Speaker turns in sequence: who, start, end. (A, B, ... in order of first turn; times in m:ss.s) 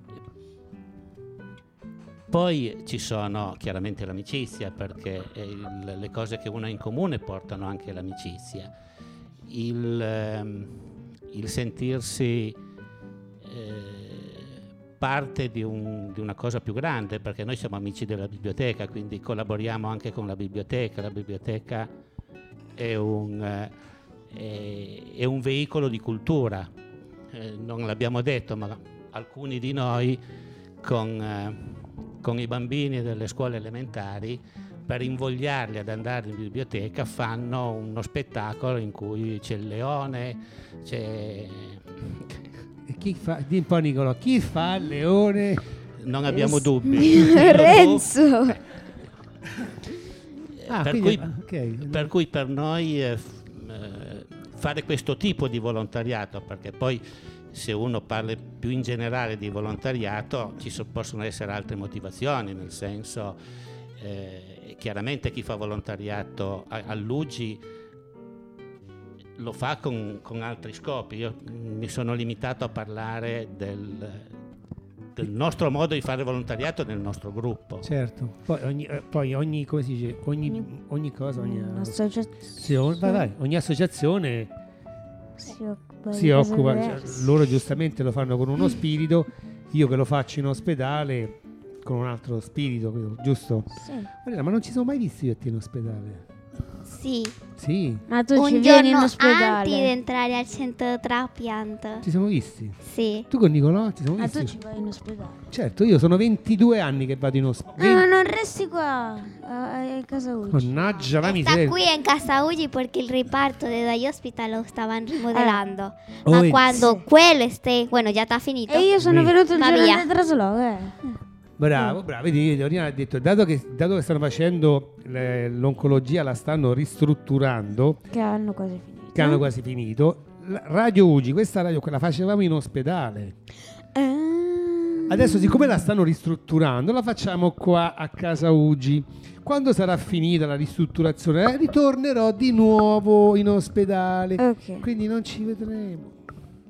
0:02.3-0:08.7 A
0:09.5-0:10.8 A
0:11.3-0:12.6 A
0:13.4-0:21.9 A
0:22.8-0:23.7 A
0:24.3-0:26.7 A
0:27.3-0:30.2 A
0:30.8-0:42.2 A
0:42.9-0:45.6 B
0:46.0-0:48.1 A
0:46.3-0:48.6 C
0:50.7-0:52.1 B
0:50.7-1:03.4 A
1:04.0-1:07.6 A
1:09.4-1:14.3 A
1:15.2-1:17.9 A
1:17.8-1:22.0 B
1:21.4-1:23.3 C
1:22.5-1:24.5 B
1:25.4-1:27.3 C
1:26.1-1:33.7 B
1:33.7-1:34.1 C
1:34.2-1:36.2 B
1:36.8-1:37.4 D
1:37.6-1:38.0 B
1:38.1-1:39.9 C
1:38.4-1:42.0 D
1:42.0-1:42.8 B
1:42.8-1:43.3 D
1:43.3-1:44.6 B
1:44.2-1:45.4 C
1:45.5-1:48.1 B
1:47.8-1:50.7 C
1:50.5-1:51.8 B
1:51.2-1:58.9 D
1:55.3-1:55.6 C
1:56.3-1:56.8 B
1:58.7-2:01.2 C
1:59.0-1:59.3 B
1:59.5-2:00.1 D
2:01.6-2:08.0 B
2:08.1-2:09.5 C
2:09.2-2:13.3 B
2:14.0-2:15.7 C
2:15.1-2:26.2 B
2:24.4-2:24.8 C